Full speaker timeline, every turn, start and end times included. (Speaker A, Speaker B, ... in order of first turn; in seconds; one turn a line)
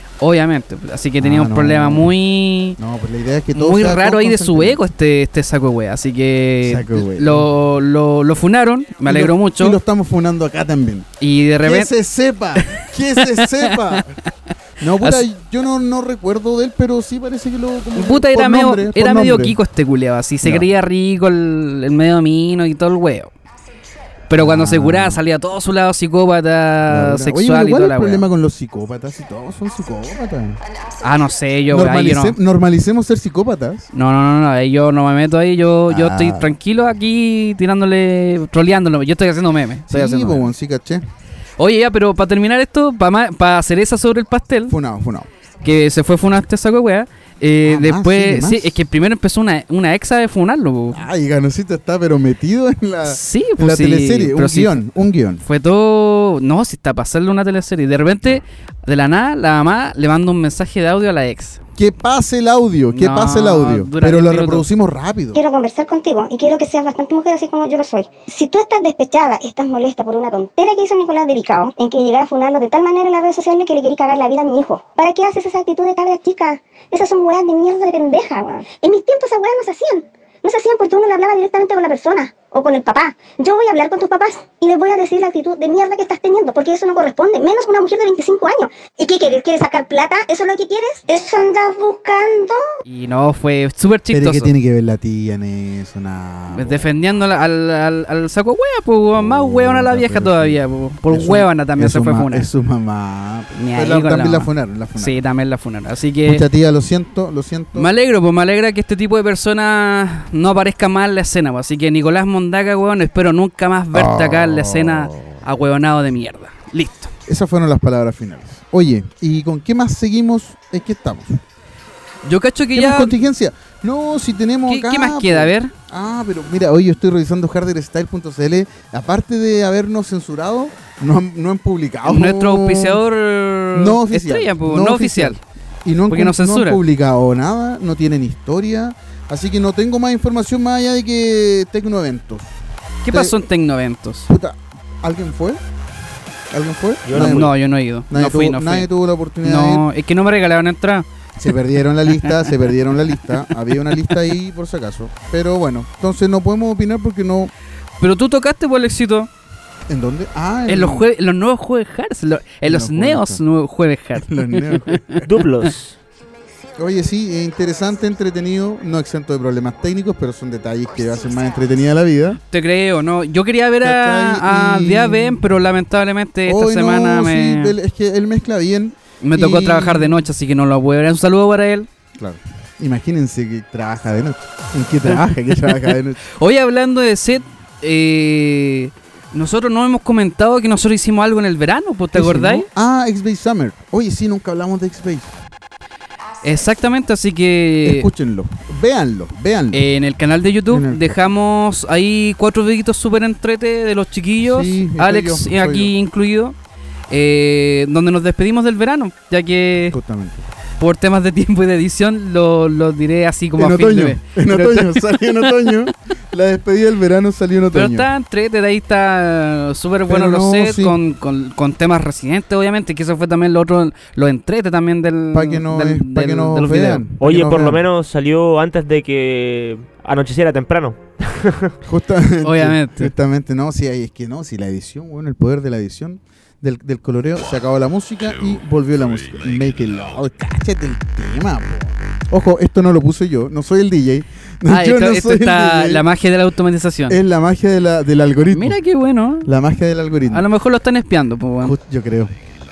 Speaker A: 0.2-2.8
Speaker B: 1.2-2.1
Speaker B: 2.8-4.8
Speaker A: 3.5-9.8
Speaker B: 6.6-7.5
Speaker B: 9.0-11.1
Speaker A: 11.2-11.9
Speaker B: 11.6-14.2
Speaker A: 12.8-14.0
Speaker B: 14.8-19.6
Speaker A: 17.9-23.3
Speaker B: 20.4-20.7
Speaker A: 24.3-28.2
Speaker B: 24.3-25.2
Speaker B: 26.9-30.6
Speaker A: 31.0-32.4
Speaker B: 31.7-33.9
Speaker A: 33.9-40.5
Speaker B: 35.9-36.5
Speaker B: 39.9-41.0
Speaker A: 41.6-44.8
Speaker B: 44.7-45.3
Speaker A: 45.6-51.0
Speaker B: 47.6-48.8
Speaker B: 50.9-55.4
Speaker A: 53.1-54.8
Speaker A: 55.4-61.6
Speaker B: 61.8-65.4
Speaker A: 62.9-64.6
Speaker C: 65.3-92.7
Speaker A: 92.8-94.5
Speaker B: 94.1-96.9
Speaker A: 96.5-102.5
Speaker B: 99.1-105.2
Speaker A: 103.5-106.4
Speaker B: 106.2-107.9
Speaker A: 107.7-117.1
Speaker B: 113.9-115.4
Speaker B: 117.3-121.4
Speaker A: 122.2-123.1
Speaker B: 122.7-133.0
Speaker A: 124.7-125.7
Speaker A: 132.0-135.4
Speaker B: 133.7-142.5
Speaker A: 136.1-136.8
Speaker A: 143.0-144.3
Speaker B: 143.1-143.4
Speaker B: 144.3-145.6
Speaker B: 146.5-147.5
Speaker D: 147.1-147.5
Speaker A: 147.1-148.9
Speaker B: 148.1-149.9
Speaker A: 149.4-151.1
Speaker B: 151.4-157.5
Speaker A: 152.1-152.5
Speaker A: 158.0-159.3
Speaker B: 159.9-161.1
Speaker A: 160.7-165.2
Speaker B: 162.6-163.4
Speaker B: 164.2-165.3
Speaker D: 165.2-166.0
Speaker B: 166.8-172.4
Speaker A: 172.5-177.7
Speaker B: 173.8-175.4
Speaker B: 176.4-180.2
Speaker A: 179.2-181.9
Speaker B: 182.2-186.2
Speaker A: 186.3-192.7
Speaker B: 192.1-195.4
Speaker A: 196.4-198.1
Speaker B: 197.8-199.9
Speaker A: 199.7-206.6
Speaker B: 200.7-201.2
Speaker B: 204.4-205.9
Speaker A: 207.1-210.0
Speaker B: 209.9-210.5
Speaker A: 210.8-215.7
Speaker B: 213.6-218.1
Speaker A: 217.7-227.0
Speaker B: 220.1-221.0
Speaker B: 225.3-227.8
Speaker D: 227.2-231.7
Speaker B: 231.8-246.0
Speaker A: 232.4-233.1
Speaker A: 244.7-247.2
Speaker B: 247.1-248.8
Speaker A: 248.5-249.5
Speaker B: 249.4-250.4
Speaker A: 250.3-251.8
Speaker B: 251.6-252.3